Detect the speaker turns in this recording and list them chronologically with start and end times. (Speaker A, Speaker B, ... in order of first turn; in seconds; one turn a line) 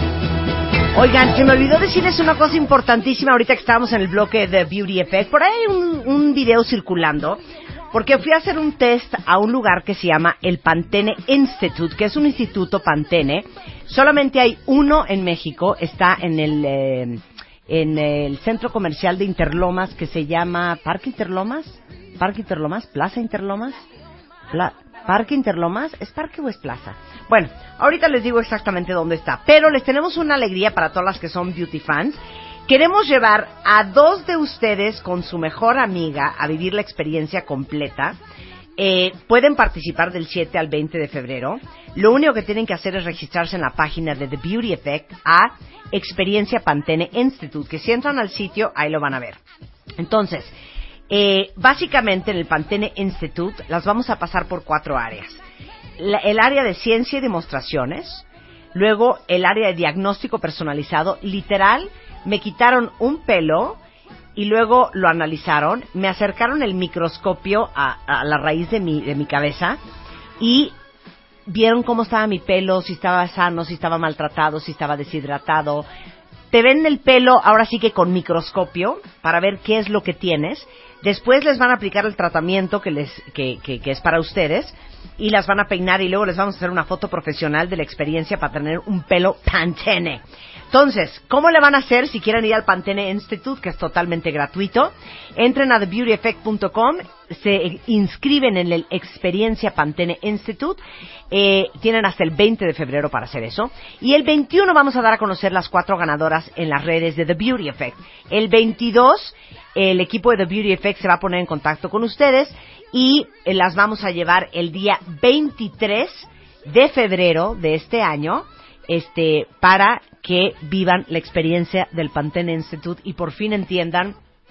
Speaker A: 0.9-23.8
Speaker A: 24.5-38.2
Speaker A: 38.8-49.4
Speaker A: 50.0-50.5
Speaker A: 51.1-55.4
Speaker A: 56.0-63.8
Speaker A: 64.3-69.8
Speaker A: 70.4-70.7
Speaker A: 71.5-75.9
Speaker A: 76.5-124.2